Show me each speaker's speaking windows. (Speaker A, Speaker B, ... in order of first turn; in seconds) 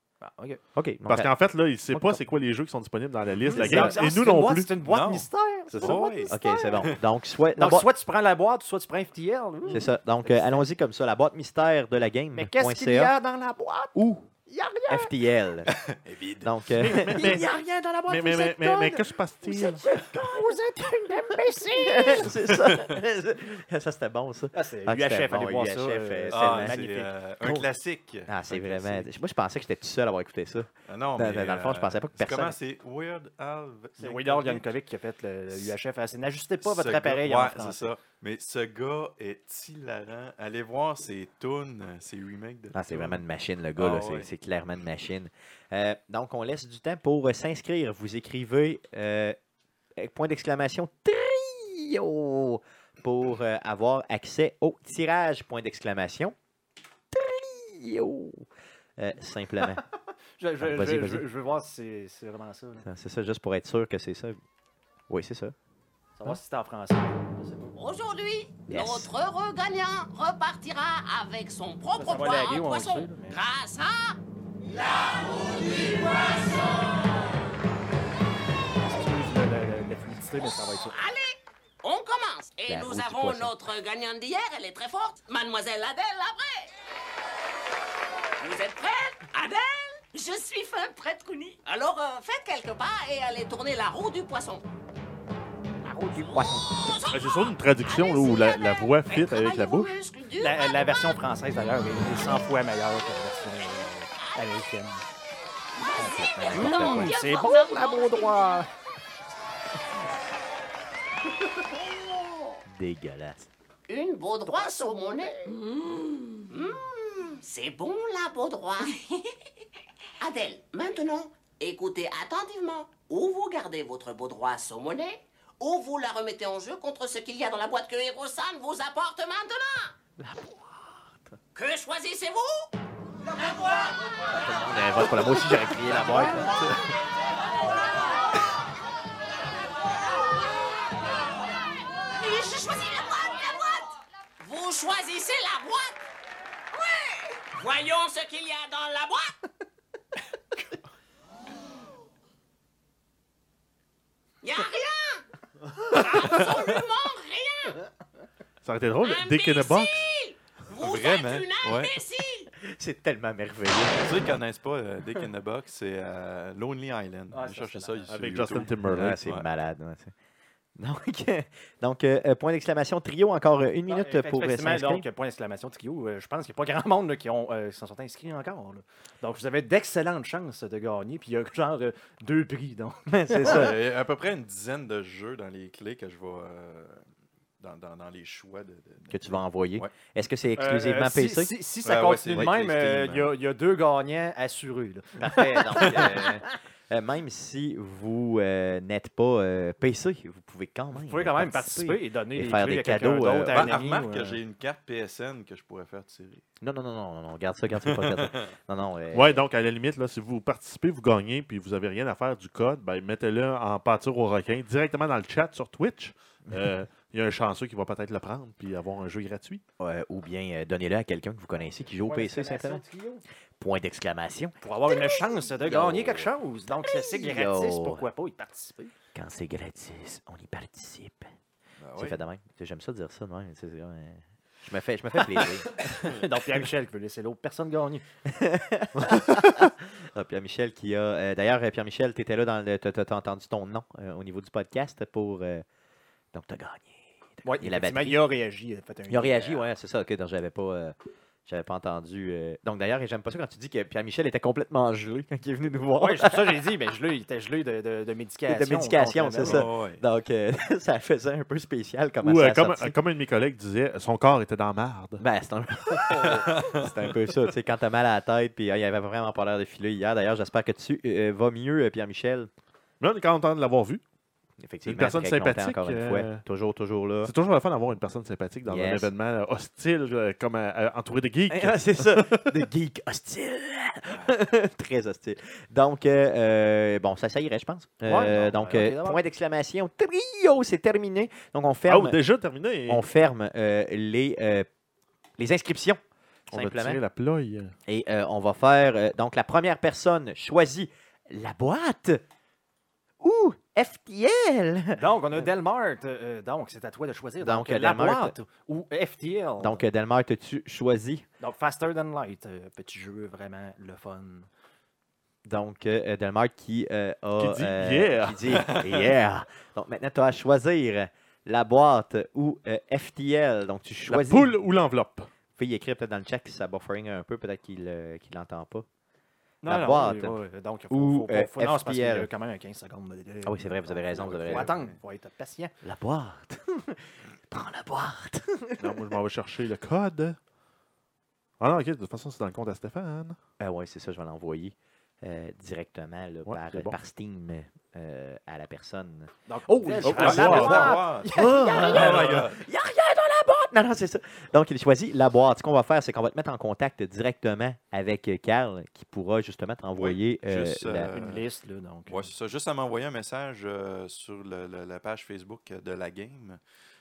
Speaker A: 0.2-0.6, 3.5-7.0, 7.5-10.7, 12.3-15.1, 16.9-22.3, 24.5-27.1, 34.0-37.9, 60.4-62.9, 66.2-68.0, 72.0-73.4, 78.8-80.9, 96.1-96.6, 100.4-105.0, 106.5-108.7, 114.6-115.2, 130.2-130.5, 167.3-168.1, 173.9-183.7, 190.6-196.6, 200.9-204.4, 222.0-223.2, 224.6-228.9, 235.2-238.0, 247.4-249.6, 256.0-259.7, 266.1-266.4, 288.1-289.2, 304.9-309.8, 311.4-314.5, 329.6-335.7, 349.5-352.2, 361.1-362.3
Speaker B: 0.7-1.3, 1.9-2.2, 3.5-4.0, 5.7-7.9, 9.7-13.1, 13.9-14.3, 14.9-15.7, 16.4-17.4, 21.7-26.9, 28.3-32.6, 42.7-49.4, 50.0-56.3, 57.1-59.8, 60.6-61.2, 62.8-64.4, 65.1-65.5, 68.7-69.1, 82.7-83.5, 105.9-107.1, 112.7-113.5, 134.3-136.7, 162.6-164.3, 168.8-170.1, 170.8-175.0, 183.1-183.8, 189.1-191.5, 195.2-203.8, 206.6-209.3, 219.8-222.8, 223.6-224.6, 225.6-226.3, 226.9-228.1, 229.1-231.3, 231.9-235.7, 238.2-245.6, 246.3-248.2, 249.1-250.9, 251.5-256.6, 258.5-262.9, 265.2-272.5, 274.6-277.3, 278.6-279.1, 281.5-292.2, 292.9-294.7, 295.4-297.0, 297.9-302.2, 303.2-305.0, 307.4-308.3, 309.6-311.2, 315.4-324.6, 325.6-328.9, 329.6-330.4, 330.9-332.3, 333.4-334.7, 335.8-339.2, 343.6-361.2
Speaker C: 1.1-4.7, 16.8-17.5, 18.1-19.8, 97.0-99.9, 158.6-160.1, 168.1-169.2, 209.1-219.6, 262.2-265.2, 273.0-274.0, 274.9-276.4, 277.2-282.5, 291.9-293.0, 296.5-297.7, 317.4-318.6, 324.1-325.3, 338.8-340.4, 341.6-343.4, 346.4-346.9, 350.0-351.9
Speaker D: 4.8-5.3, 5.8-7.0, 15.9-16.9, 26.3-29.1, 30.9-34.7, 36.6-43.2, 43.8-44.3, 160.7-162.0, 163.9-169.4, 183.3-187.0, 187.6-189.9, 191.8-193.3, 195.8-196.1, 203.5-206.4, 207.8-208.5, 231.8-232.2, 259.4-260.0, 266.1-267.1, 318.5-319.1, 334.1-335.0, 350.0-352.6, 359.9-361.4, 362.1-366.6
Speaker E: 67.7-74.2, 74.7-76.9, 80.9-86.7, 88.4-94.6, 95.8-100.9, 105.8-108.6, 113.9-119.3, 120.2-129.9, 131.5-132.7, 133.4-133.8, 142.1-146.0, 146.7-149.4, 154.4-155.2, 155.8-157.8, 159.0-162.5